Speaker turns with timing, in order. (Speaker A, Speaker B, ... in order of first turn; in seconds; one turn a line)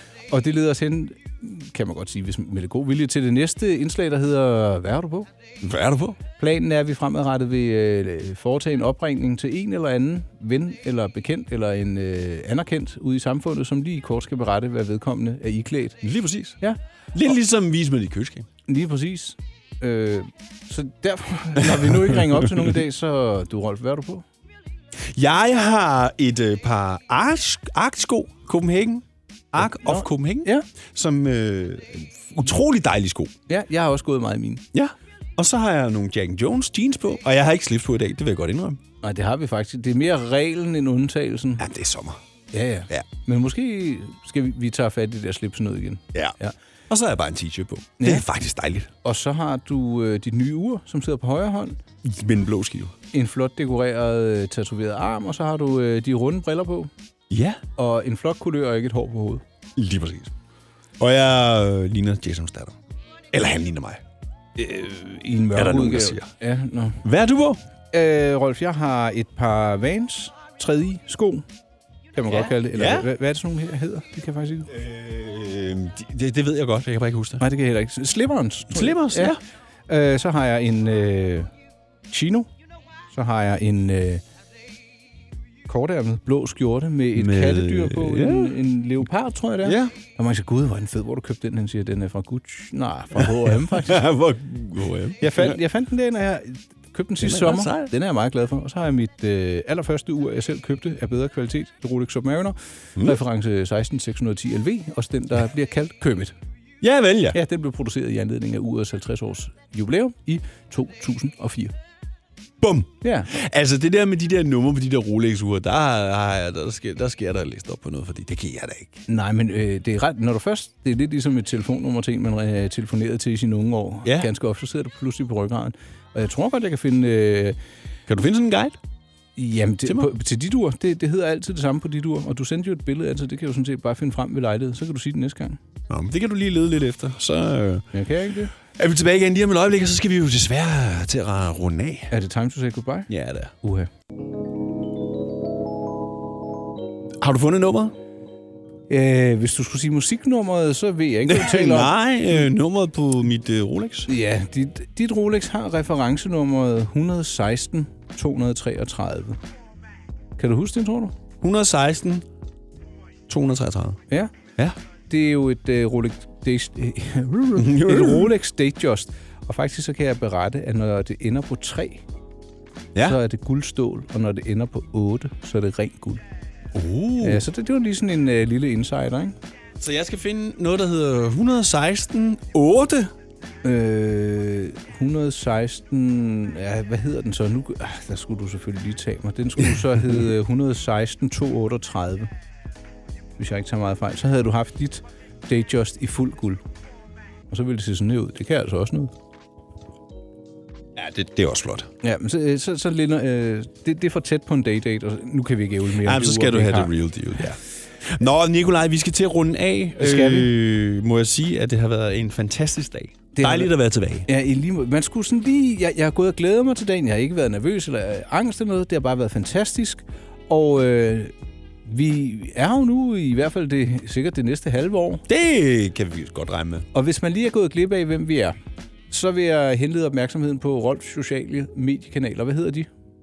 Speaker A: 0.3-5.3
Speaker B: 5.6-6.2
Speaker A: 6.4-16.0
Speaker B: 16.0-16.6
Speaker B: 17.1-18.5
Speaker A: 18.7-24.3
Speaker B: 21.7-22.4
Speaker B: 25.1-33.3
Speaker A: 29.6-30.6
Speaker A: 33.5-34.6
Speaker B: 34.7-38.8
Speaker A: 39.0-41.6
Speaker B: 41.6-42.2
Speaker A: 42.5-46.5
Speaker B: 46.9-48.9
Speaker A: 48.0-48.2
Speaker A: 49.0-51.8
Speaker B: 52.0-53.0
Speaker A: 53.1-56.9
Speaker B: 57.3-57.6
Speaker A: 57.8-59.4
Speaker B: 59.8-60.3
Speaker B: 61.0-62.8
Speaker B: 63.3-64.0
Speaker A: 64.6-67.0
Speaker B: 65.5-66.3
Speaker B: 67.0-67.6
Speaker A: 67.9-71.5
Speaker A: 72.2-74.7
Speaker B: 72.3-73.1
Speaker B: 74.7-77.4
Speaker A: 77.4-79.4
Speaker B: 78.7-79.4
Speaker A: 79.9-81.5
Speaker A: 82.1-82.5
Speaker A: 83.1-84.2
Speaker A: 85.7-94.0
Speaker B: 87.2-88.6
Speaker B: 89.6-89.9
Speaker B: 93.2-95.6
Speaker A: 95.2-106.4
Speaker B: 97.2-97.9
Speaker B: 106.8-107.4
Speaker A: 107.3-111.7
Speaker B: 112.6-119.0
Speaker A: 113.0-113.3
Speaker A: 119.1-127.6
Speaker B: 128.1-128.8
Speaker A: 129.4-135.6
Speaker B: 135.9-137.9
Speaker A: 137.9-138.5
Speaker B: 138.8-142.1
Speaker A: 142.1-143.1
Speaker B: 143.1-143.5
Speaker A: 143.6-143.9
Speaker B: 147.2-147.9
Speaker A: 148.9-152.0
Speaker B: 151.3-154.1
Speaker A: 154.1-159.4
Speaker A: 160.4-161.2
Speaker B: 161.4-162.2
Speaker B: 163.3-164.0
Speaker A: 165.1-172.0
Speaker B: 167.6-168.3
Speaker A: 173.0-176.2
Speaker B: 176.7-177.4
Speaker A: 177.2-179.4
Speaker B: 179.8-183.1
Speaker A: 183.6-192.3
Speaker A: 193.4-196.6
Speaker A: 197.5-199.1
Speaker B: 201.0-201.9
Speaker A: 202.0-206.9
Speaker B: 206.0-214.3
Speaker A: 210.0-210.5
Speaker A: 213.3-213.7
Speaker A: 214.3-221.3
Speaker A: 221.8-225.2
Speaker B: 225.3-226.9
Speaker A: 226.9-228.6
Speaker A: 229.1-232.9